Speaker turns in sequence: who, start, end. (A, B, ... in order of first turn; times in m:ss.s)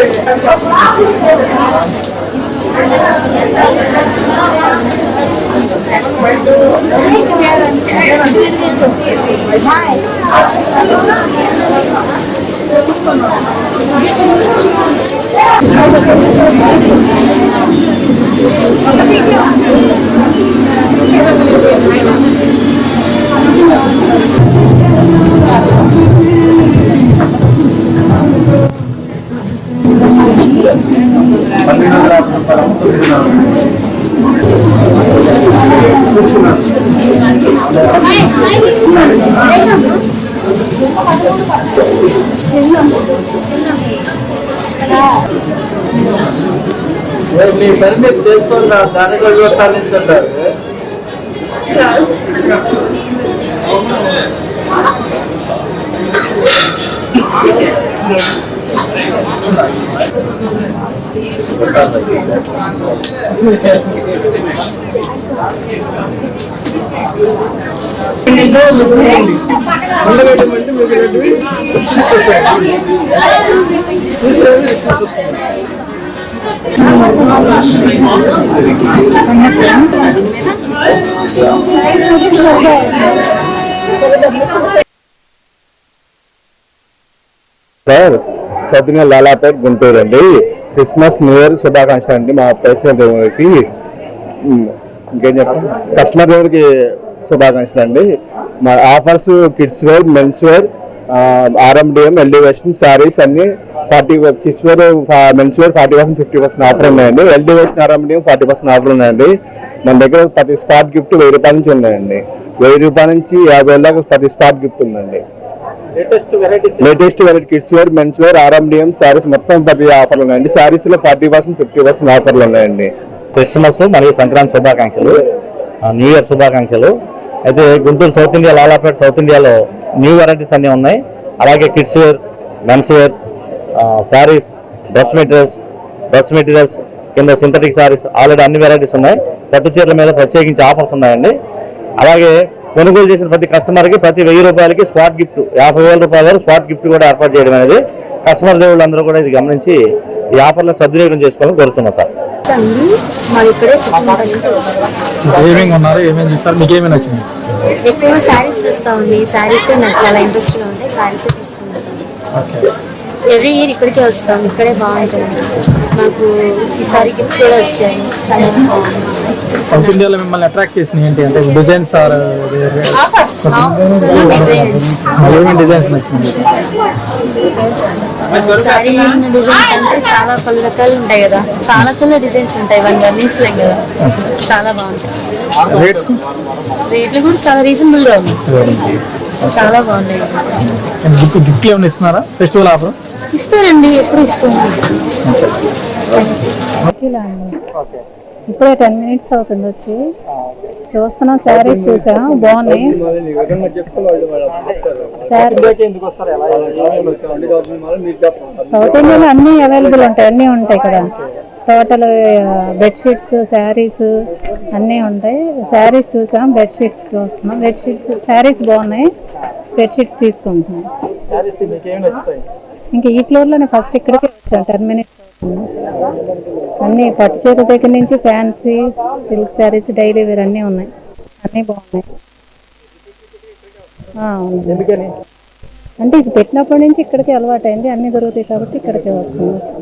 0:31.7-0:33.2 A
1:01.6-1:02.2 B
1:10.7-1:10.9 C
1:16.9-1:17.3 D
1:19.3-1:19.8 D
1:22.3-1:22.9 D
1:27.9-1:28.2 E
1:28.7-1:33.6 E
1:34.5-1:36.6 E
1:37.2-1:38.1 E
1:38.6-1:49.3 E
1:49.8-1:55.2 E
1:56.0-1:56.8 C
1:56.8-2:02.9 E
2:03.3-2:05.2 B
2:05.8-2:06.9 B
2:07.5-2:13.1 B
2:13.8-2:15.6 B
2:16.1-2:21.3 B
2:22.0-2:29.8 B
2:30.4-2:32.1 B
2:32.5-2:32.8 F
2:33.3-2:34.7 F
2:35.3-2:37.2 A
2:37.9-2:41.9 F
2:42.3-2:42.7 A
2:43.3-2:45.4 F
2:46.0-2:46.2 F
2:46.8-2:50.1 F
2:49.7-2:56.5 A
2:53.5-2:55.2 F
2:57.6-3:05.1 F
3:05.7-3:06.2 A
3:06.9-3:08.4 F
3:08.5-3:09.7 A
3:09.5-3:10.5 F
3:10.6-3:13.0 A
3:13.3-3:14.9 F
3:15.2-3:15.6 A
3:16.2-3:17.6 D
3:18.5-3:20.0 D
3:20.9-3:23.0 D
3:21.6-3:25.7 C
3:25.2-3:25.8 D
3:26.5-3:28.9 C
3:28.6-3:31.1 D
3:31.7-3:34.1 D
3:34.7-3:39.1 D
3:39.8-3:40.9 D
3:42.9-3:45.7 D
3:46.8-3:50.9 D
3:51.4-3:52.0 D
3:54.2-3:55.0 D
3:56.0-3:59.6 D